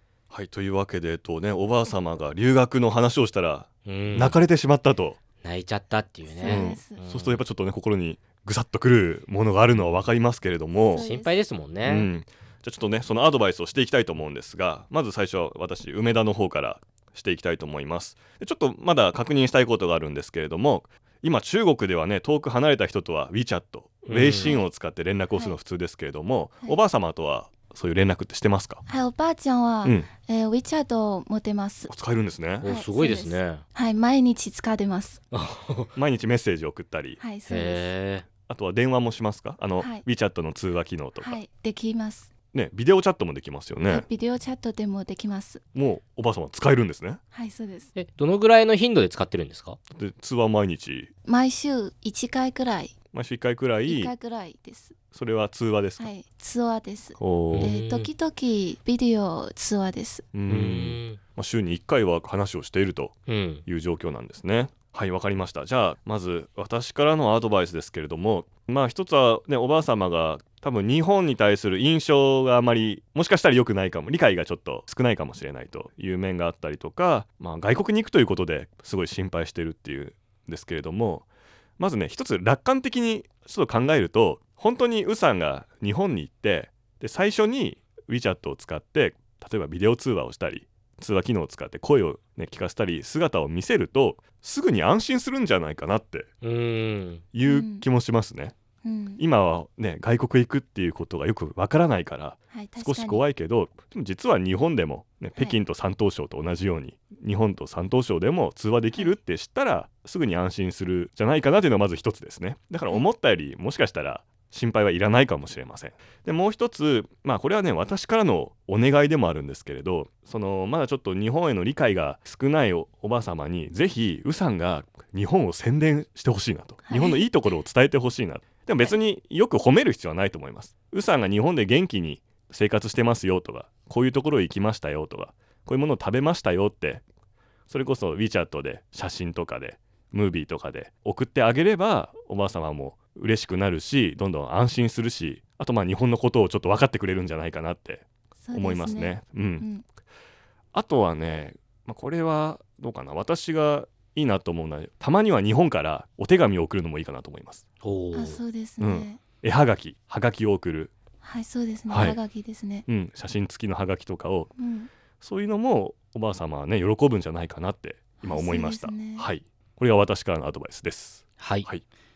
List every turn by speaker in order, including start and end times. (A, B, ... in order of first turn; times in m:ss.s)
0:00.3-0:05.2 A
0:03.8-0:04.4 B
0:05.4-0:07.4 B
0:06.2-0:07.0 C
0:06.5-0:11.0 A
0:10.7-0:11.4 C
0:10.9-0:12.1 B
0:11.8-0:28.8 A
0:24.0-0:24.5 B
0:24.4-0:24.7 C
0:28.9-0:31.9 C
0:29.8-0:30.1 A
0:31.9-0:32.7 A
0:32.6-0:33.6 B
0:32.6-0:35.2 C
0:35.3-0:35.9 B
0:36.0-0:37.2 A
0:37.2-0:37.9 C
0:37.5-0:38.2 B
0:38.5-0:41.4 A
0:39.8-0:40.0 C
0:41.2-0:42.3 C
0:42.5-0:44.0 A
0:43.8-0:45.6 C
0:45.7-0:47.2 A
0:47.3-0:47.9 C
0:47.9-0:49.8 B
0:49.9-0:51.1 A
0:51.2-0:52.9 C
0:53.1-0:54.1 A
0:53.8-0:55.0 C
0:55.1-0:56.1 A
0:56.0-1:00.3 C
0:57.2-0:57.7 A
0:57.5-0:58.1 B
1:00.3-1:36.3 A
1:00.5-1:01.2 B
1:03.3-1:03.6 B
1:36.4-1:37.2 B
1:37.3-1:38.5 A
1:37.4-1:37.8 C
1:38.8-1:39.2 C
1:39.2-2:17.0 A
1:42.5-1:43.2 C
1:48.9-1:49.2 C
2:06.9-2:07.3 C
2:17.7-2:29.7 A
2:28.4-2:29.8 C
2:30.7-2:37.6 A
2:37.8-2:38.4 B
2:38.1-2:39.2 C
2:38.8-2:40.9 A
2:41.2-2:42.9 C
2:41.9-2:42.2 A
2:42.9-2:44.5 A
2:44.6-2:44.9 C
2:45.2-2:51.8 A
2:48.2-2:49.3 C
2:51.4-2:51.7 B